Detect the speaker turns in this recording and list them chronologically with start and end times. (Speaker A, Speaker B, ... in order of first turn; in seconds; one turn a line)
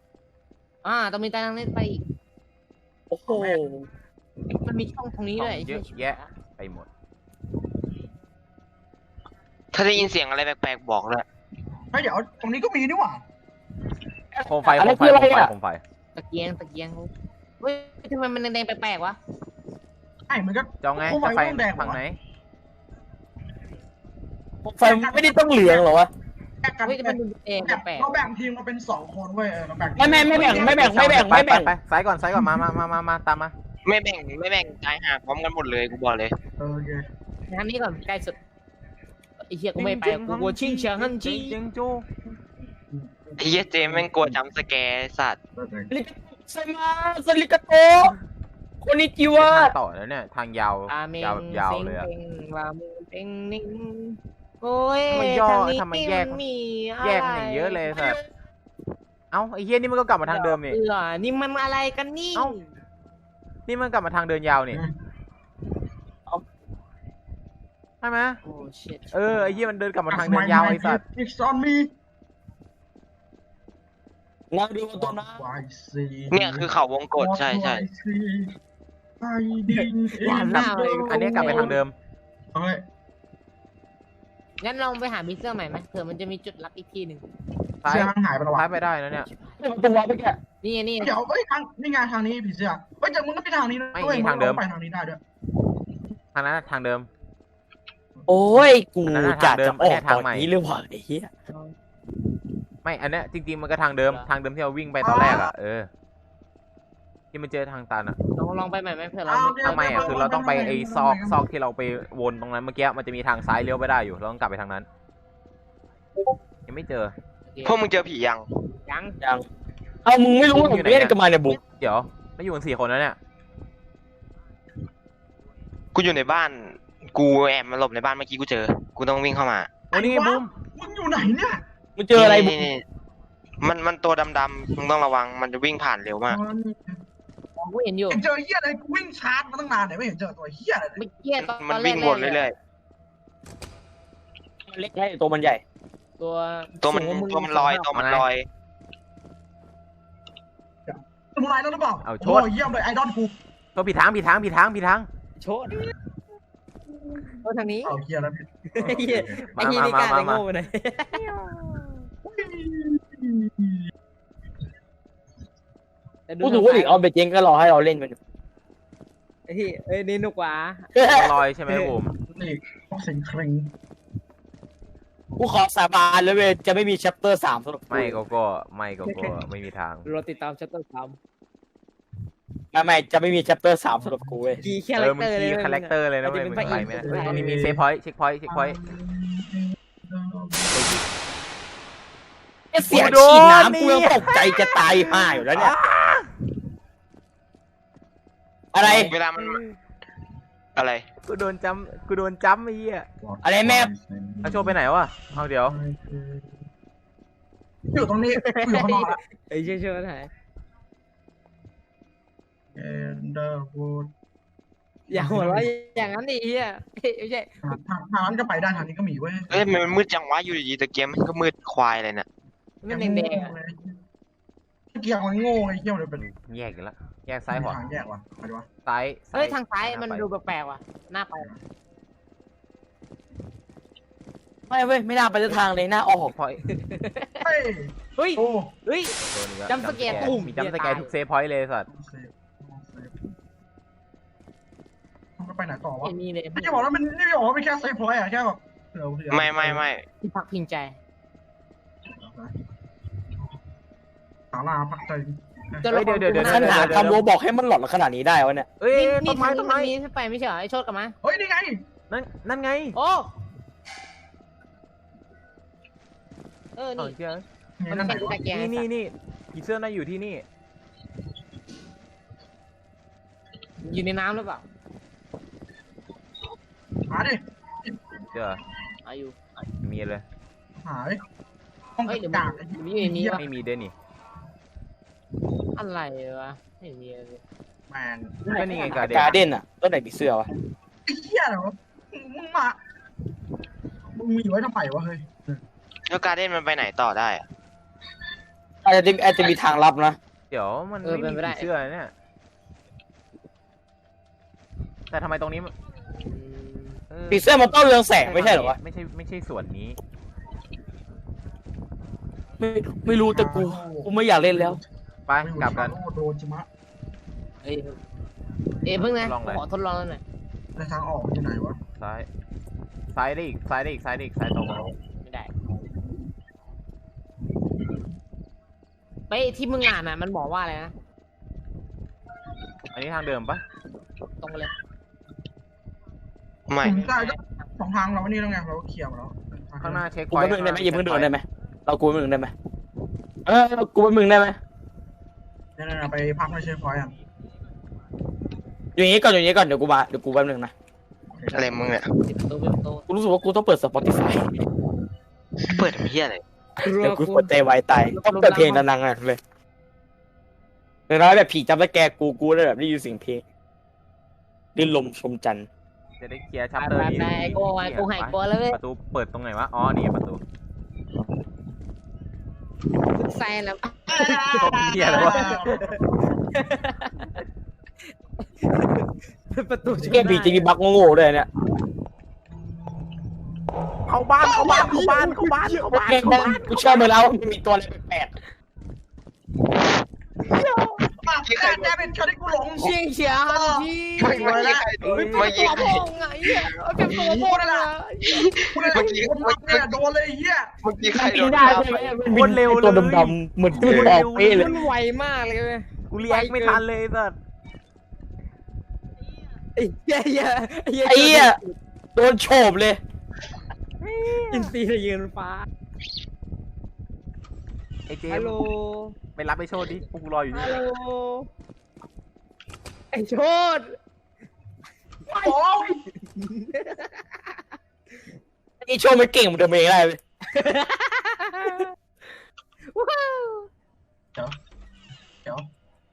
Speaker A: 0.8-2.0
Speaker B: 3.1-3.9
Speaker C: 3.3-3.7
Speaker A: 4.6-6.3
Speaker D: 5.4-6.9
Speaker E: 9.7-11.2
Speaker C: 11.9-13.2
Speaker B: 14.3-15.5
Speaker D: 14.4-15.8
Speaker A: 16.1-19.2
Speaker C: 20.3-22.0
Speaker D: 20.8-22.2
Speaker B: 24.6-26.1
Speaker C: 24.8-25.9
Speaker C: 26.6-30.9
Speaker A: 26.8-28.1
Speaker B: 30.0-31.7
Speaker D: 30.3-33.5
Speaker C: 32.3-32.6
Speaker E: 33.8-36.3
Speaker C: 36.6-37.0
Speaker A: 37.5-38.4
Speaker A: 39.5-41.6
Speaker D: 39.8-42.0
Speaker C: 42.9-44.4
Speaker E: 43.4-45.4
Speaker C: 45.6-45.9
Speaker B: 45.9-48.2
Speaker B: 48.8-49.7
Speaker D: 49.4-52.1
Speaker A: 50.9-58.3
Speaker D: 55.1-56.4
Speaker D: 57.0-58.2
Speaker D: 59.3-60.8
Speaker A: 60.3-62.7
Speaker D: 63.7-64.8
Speaker D: 68.0-68.4
Speaker A: 68.4-69.7
Speaker D: 69.1-71.0
Speaker C: 70.1-71.9
Speaker B: 74.5-75.4
Speaker C: 75.0-78.5
Speaker E: 76.3-77.8
Speaker C: 79.2-81.8
Speaker A: 79.7-81.8
Speaker D: 80.5-81.9
Speaker C: 82.5-82.8
Speaker A: 84.6-87.2
Speaker D: 87.8-89.3
Speaker C: 87.9-88.8
Speaker B: 89.6-90.4
Speaker A: 90.6-91.2
Speaker C: 91.0-95.2
Speaker D: 94.0-94.6
Speaker D: 96.3-97.1
Speaker C: 98.2-98.6
Speaker B: 98.3-101.3
Speaker D: 99.1-100.5
Speaker D: 102.8-105.9
Speaker C: 105.0-105.5
Speaker D: 107.3-108.2
Speaker A: 108.3-110.4
Speaker C: 109.3-111.4
Speaker D: 109.6-114.8
Speaker D: 116.7-117.1
Speaker A: 117.5-117.8
Speaker E: 117.7-118.5
Speaker A: 118.8-119.2
Speaker B: 120.0-121.6
Speaker D: 120.5-123.2
Speaker E: 126.0-129.8
Speaker C: 129.9-131.6
Speaker D: 129.9-130.5
Speaker B: 132.0-132.7
Speaker E: 132.2-132.8
Speaker E: 133.6-136.4
Speaker C: 136.3-137.0
Speaker A: 137.6-138.2
Speaker C: 138.1-141.0
Speaker A: 141.0-142.5
Speaker E: 141.4-142.5
Speaker B: 144.7-145.6
Speaker A: 146.2-147.9
Speaker E: 146.8-148.5
Speaker D: 147.9-148.2
Speaker C: 150.8-153.4
Speaker D: 152.0-152.5
Speaker D: 153.8-155.1
Speaker A: 155.4-155.9
Speaker A: 157.4-158.0
Speaker C: 157.8-159.8
Speaker A: 158.7-161.3
Speaker D: 159.5-160.4
Speaker D: 161.3-161.8
Speaker C: 162.2-163.9
Speaker A: 166.3-167.0
Speaker B: 166.4-168.2
Speaker A: 169.5-170.9
Speaker B: 170.9-171.4
Speaker D: 171.0-172.1
Speaker C: 172.2-173.7
Speaker B: 175.4-178.2
Speaker D: 177.9-180.0
Speaker A: 179.0-179.4
Speaker A: 180.0-181.2
Speaker B: 182.7-184.6
Speaker C: 183.9-184.7
Speaker A: 184.6-187.5
Speaker D: 185.0-188.8
Speaker C: 186.6-187.8
Speaker C: 188.5-191.0
Speaker B: 192.7-195.8
Speaker D: 192.9-196.3
Speaker B: 198.7-199.1
Speaker E: 198.8-199.6
Speaker E: 200.8-201.1
Speaker D: 201.2-203.1
Speaker C: 203.2-204.8
Speaker B: 203.4-203.9
Speaker D: 204.4-205.8
Speaker C: 205.4-206.5
Speaker C: 207.9-209.2
Speaker A: 208.4-210.3
Speaker C: 212.8-214.1
Speaker A: 215.1-217.5
Speaker C: 215.1-215.7
Speaker C: 217.6-220.0
Speaker E: 219.5-222.3
Speaker A: 222.8-223.5
Speaker C: 222.9-224.0
Speaker C: 224.9-226.3
Speaker D: 226.2-227.8
Speaker C: 227.5-228.7
Speaker D: 228.8-230.3
Speaker A: 229.3-231.5
Speaker B: 234.7-236.3
Speaker D: 236.2-236.6
Speaker A: 236.7-237.5
Speaker C: 237.4-238.7
Speaker A: 238.2-239.2
Speaker D: 239.3-241.9
Speaker A: 239.7-241.1
Speaker C: 240.1-240.3
Speaker C: 241.9-243.3
Speaker C: 245.4-249.8
Speaker A: 246.0-246.9
Speaker E: 249.3-250.1
Speaker A: 250.2-251.0
Speaker C: 252.1-252.5
Speaker C: 254.5-255.9
Speaker A: 255.8-257.0
Speaker D: 255.9-257.2
Speaker B: 256.4-258.7
Speaker D: 258.8-259.9
Speaker A: 258.9-261.1
Speaker C: 261.2-261.8
Speaker D: 262.1-263.0
Speaker A: 262.9-263.3
Speaker A: 266.8-267.1
Speaker D: 267.0-267.4
Speaker C: 267.8-268.4
Speaker A: 267.9-268.9
Speaker D: 268.0-270.4
Speaker A: 273.8-274.6
Speaker C: 277.1-278.0
Speaker D: 278.3-278.6
Speaker A: 279.0-279.6
Speaker D: 279.8-280.2
Speaker C: 280.8-281.2
Speaker C: 282.0-283.4
Speaker A: 282.1-283.4
Speaker D: 283.4-283.9
Speaker A: 285.8-287.4
Speaker C: 287.9-288.4
Speaker B: 288.4-290.5
Speaker D: 288.5-289.4
Speaker C: 291.1-292.8
Speaker C: 294.1-295.6
Speaker E: 296.1-297.4
Speaker B: 298.8-300.2
Speaker D: 300.5-302.1
Speaker A: 301.0-301.7
Speaker D: 305.1-305.7
Speaker A: 306.3-307.0
Speaker D: 307.1-307.5
Speaker B: 307.3-308.8
Speaker D: 308.2-310.0
Speaker B: 312.6-314.8
Speaker C: 313.1-314.9
Speaker D: 315.3-315.9
Speaker C: 315.4-316.7
Speaker A: 317.6-318.0
Speaker A: 318.9-320.2
Speaker D: 319.0-319.6
Speaker C: 320.8-321.8
Speaker D: 322.0-322.3
Speaker D: 323.1-324.9
Speaker C: 324.6-324.9
Speaker A: 325.2-325.5
Speaker A: 329.3-330.9
Speaker D: 332.9-333.6
Speaker A: 334.4-334.7
Speaker E: 336.7-337.0
Speaker C: 336.8-340.0
Speaker A: 336.8-337.7
Speaker D: 339.8-341.3
Speaker B: 340.3-342.5
Speaker B: 343.5-344.6
Speaker C: 345.8-347.1
Speaker B: 349.0-350.7
Speaker C: 351.3-352.0
Speaker E: 351.5-352.1
Speaker A: 352.2-353.1
Speaker B: 353.1-354.4
Speaker E: 355.7-356.4
Speaker A: 356.8-358.9
Speaker B: 356.9-359.4
Speaker B: 361.1-363.4
Speaker B: 364.8-365.7
Speaker D: 366.2-370.4
Speaker A: 366.8-368.8
Speaker A: 373.1-375.6
Speaker C: 374.1-376.4
Speaker D: 374.6-375.9
Speaker A: 376.5-377.4
Speaker A: 378.4-380.7
Speaker B: 379.9-381.5
Speaker D: 384.1-386.6
Speaker A: 384.4-387.1
Speaker C: 384.4-385.2
Speaker B: 385.9-388.3
Speaker A: 390.4-391.1
Speaker C: 391.2-392.9
Speaker E: 391.4-392.0
Speaker A: 392.8-399.0
Speaker C: 393.5-394.9
Speaker E: 394.2-396.0
Speaker D: 395.0-396.0
Speaker C: 397.1-397.9
Speaker E: 397.1-397.4
Speaker E: 398.3-399.9
Speaker C: 398.7-400.8
Speaker E: 400.8-402.1
Speaker B: 401.1-404.7
Speaker D: 402.2-404.9
Speaker E: 403.8-404.2
Speaker A: 404.5-406.8
Speaker D: 406.1-407.4
Speaker A: 409.8-411.8
Speaker B: 411.1-411.6
Speaker B: 412.2-413.0
Speaker D: 414.0-414.7
Speaker A: 414.5-415.7
Speaker D: 418.1-418.6
Speaker A: 418.3-419.2
Speaker D: 419.4-420.8
Speaker A: 420.5-421.5
Speaker A: 423.1-424.0
Speaker C: 425.3-426.0
Speaker A: 426.1-427.6
Speaker B: 428.8-430.2
Speaker A: 430.5-431.9
Speaker A: 432.9-433.7